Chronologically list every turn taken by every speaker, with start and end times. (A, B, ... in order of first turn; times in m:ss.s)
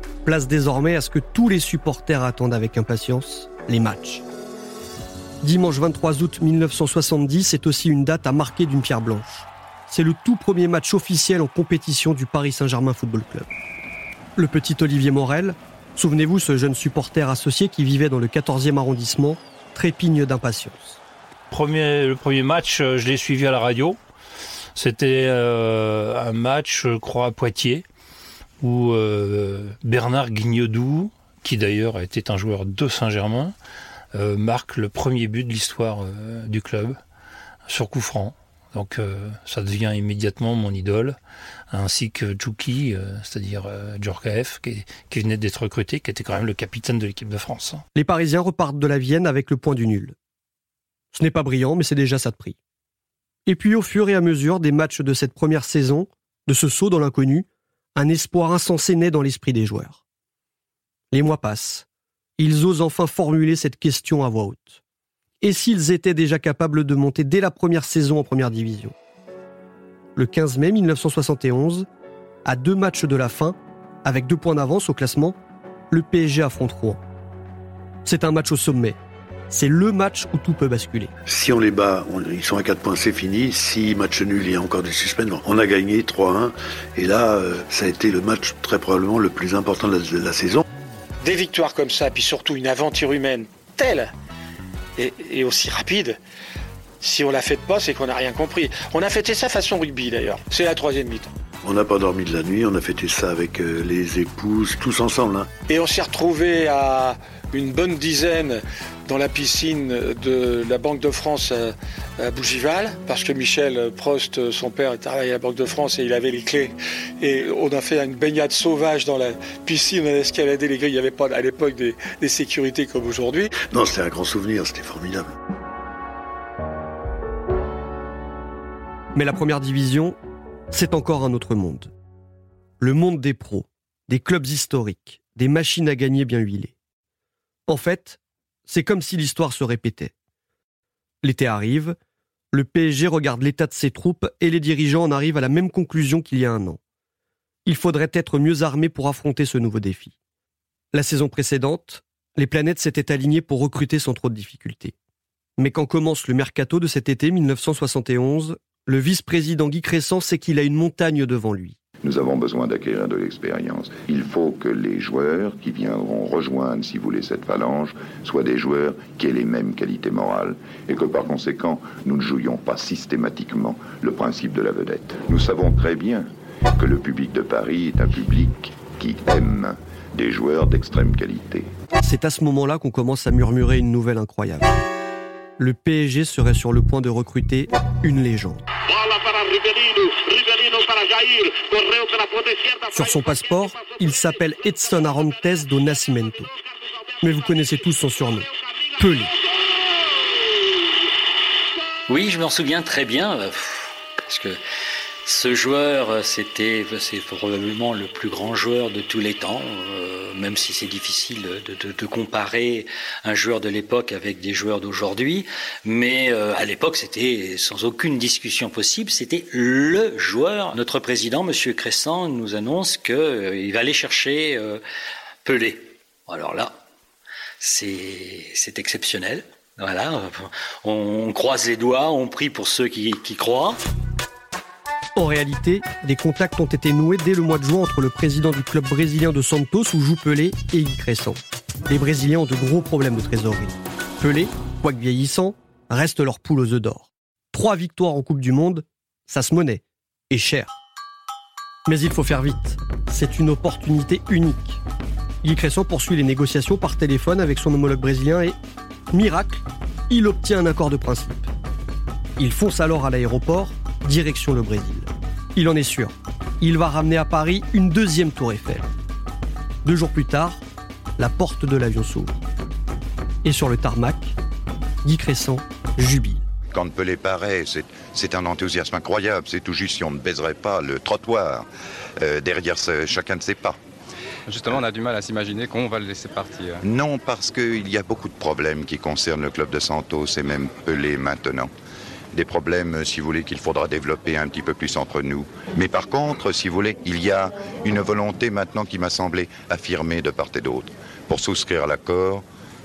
0:00.2-0:04.2 A
0:05.4-0:13.5 A
0:14.4-0:21.0 A
0:21.5-0:24.0 B
0:24.7-0:27.8 B
0:28.6-0:33.5 B
0:34.1-0:37.0 B
0:37.7-0:41.2 B
0:41.7-0:47.8 B
0:47.9-0:50.1 A
0:51.1-0:52.6 A
0:53.4-1:00.0 A
1:01.1-1:01.8 A
1:02.4-1:04.8 A
1:05.4-1:08.9 A
1:10.2-1:11.9 A
1:12.4-1:15.4 A
1:15.9-1:17.0 A
1:18.0-1:19.0 A
1:19.5-1:21.1 A
1:21.2-1:30.6 C
1:31.2-1:34.1 D
1:35.0-1:36.2 D
1:37.0-1:41.3 D
1:41.6-1:45.5 C
1:45.7-2:03.5 D
2:03.6-2:05.3 C
2:09.1-2:10.2 A
2:10.7-2:11.9 A
2:12.8-2:16.7 A
2:17.7-2:20.1 A
2:21.2-2:22.0 A
2:22.5-2:26.8 A
2:27.6-2:30.2 A
2:30.9-2:34.9 A
2:35.6-2:41.8 A
2:42.0-3:01.7 E
3:02.0-3:04.7 A
3:05.6-3:08.6 A
3:12.9-3:16.5 A
3:17.2-3:19.3 A
3:22.1-3:24.6 F
3:25.2-3:44.8 F
3:45.4-3:46.8 F
3:47.6-3:53.8 F
3:55.2-4:10.8 A
4:11.8-4:14.8 A
4:15.4-4:18.6 A
4:19.1-4:21.5 A
4:22.4-4:28.8 A
4:29.8-4:30.6 A
4:31.2-4:32.4 A
4:33.4-4:34.4 A
4:35.0-4:36.4 A
4:36.7-4:41.7 E
4:42.2-4:43.8 E
4:44.5-4:46.8 G
4:46.8-4:51.7 E
4:52.3-5:02.4 E